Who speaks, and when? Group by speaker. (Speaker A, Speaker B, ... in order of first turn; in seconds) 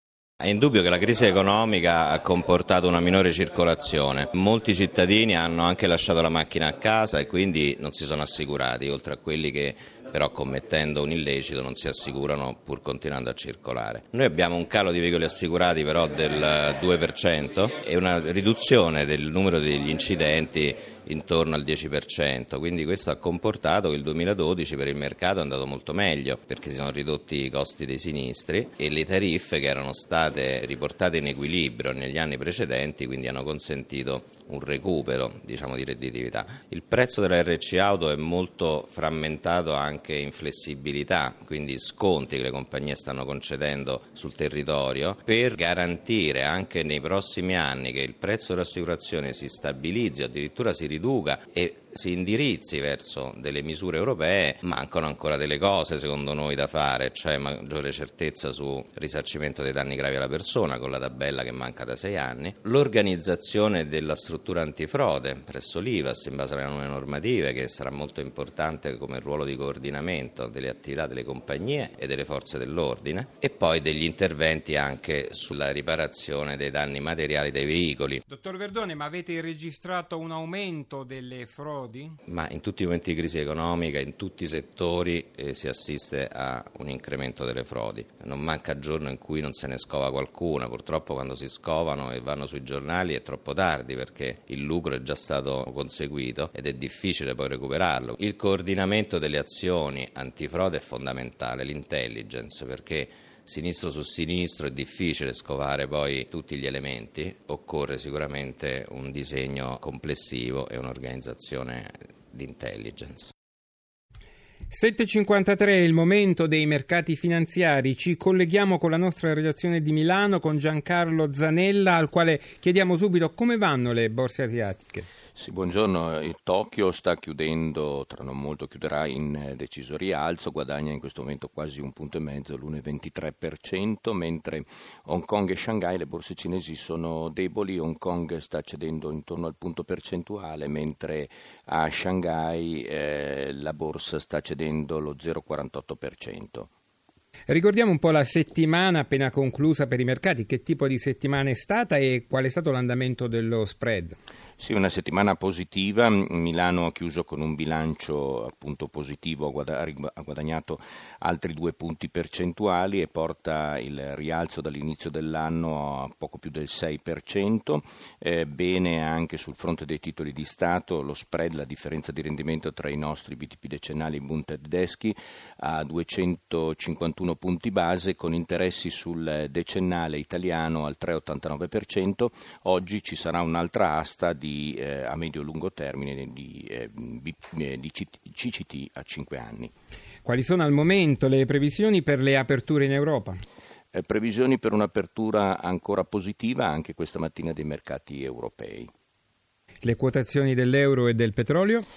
Speaker A: 0.4-78.2, 82.3-113.3
Speaker B: 78.3-82.2, 114.7-125.0, 147.5-154.2, 190.2-193.4, 199.8-201.8
Speaker C: 125.3-146.7, 154.6-189.7, 193.9-198.9